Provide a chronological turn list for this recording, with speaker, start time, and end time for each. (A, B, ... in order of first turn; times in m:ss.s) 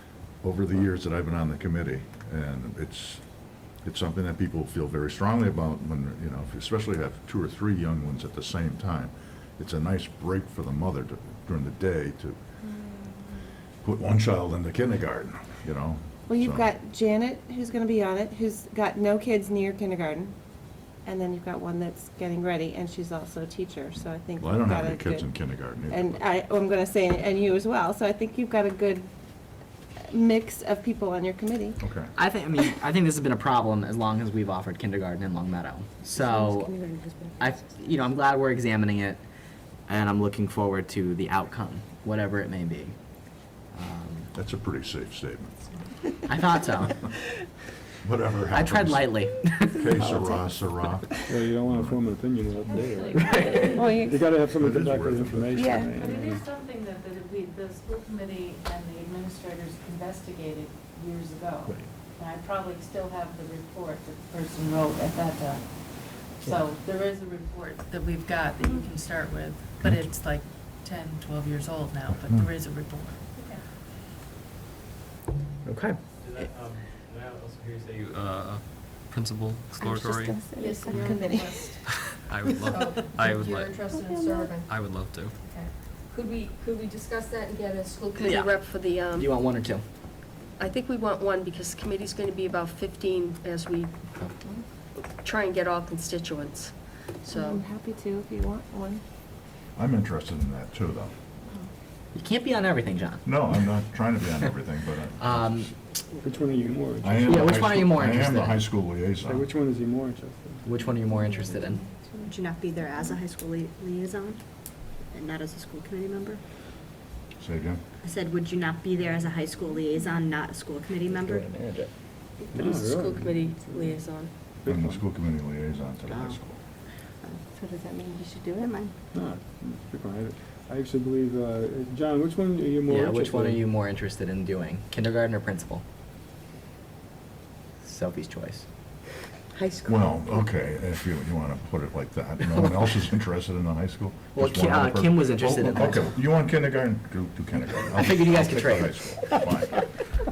0:00.4-0:03.2 A
0:03.8-0:12.4 A
0:13.8-0:16.6 A
0:16.3-0:20.4 B
0:21.0-0:29.1 B
0:24.4-0:26.2 A
0:30.1-0:31.8 B
0:31.8-0:32.1 A
0:32.2-0:36.7 C
0:37.4-0:39.2 C
0:39.9-0:42.9 C
0:43.7-0:44.3 C
0:44.3-0:45.7 A
0:46.3-0:47.0 C
0:48.0-0:52.0 A
0:48.6-0:49.8 C
0:51.3-0:56.4 D
0:52.6-0:53.9 E
0:54.4-0:55.8 A
0:56.0-1:13.6 E
1:09.8-1:10.1 A
1:15.7-1:15.9 C
1:16.2-1:20.6 F
1:19.8-1:21.8 B
1:20.6-1:21.8 G
1:21.9-1:24.0 F
1:22.6-1:24.7 G
1:24.6-1:25.4 F
1:25.4-1:29.3 G
1:28.2-1:28.5 C
1:29.2-1:29.8 C
1:30.6-1:34.6 G
1:35.2-1:37.6 G
1:37.3-1:39.0 B
1:39.8-1:41.1 A
1:42.9-1:43.2 C
1:43.2-1:45.7 A
1:45.3-1:45.7 C
1:46.2-1:47.6 D
1:47.0-1:49.5 A
1:47.3-1:48.6 C
1:49.2-1:50.7 D
1:50.7-1:51.8 C
1:52.2-1:54.4 H
1:55.1-1:56.4 H
1:57.4-1:57.8 A
1:58.0-2:01.5 H
2:02.4-2:04.3 G
2:02.5-2:03.6 D
2:04.6-2:05.0 D
2:04.7-2:06.6 A
2:07.6-2:08.7 B
2:08.4-2:08.9 H
2:09.1-2:13.7 D
2:12.9-2:15.8 C
2:17.8-2:18.6 C
2:19.8-2:29.9 A
2:22.6-2:22.8 C
2:24.3-2:26.2 C
2:27.7-2:28.4 F
2:28.0-2:28.9 C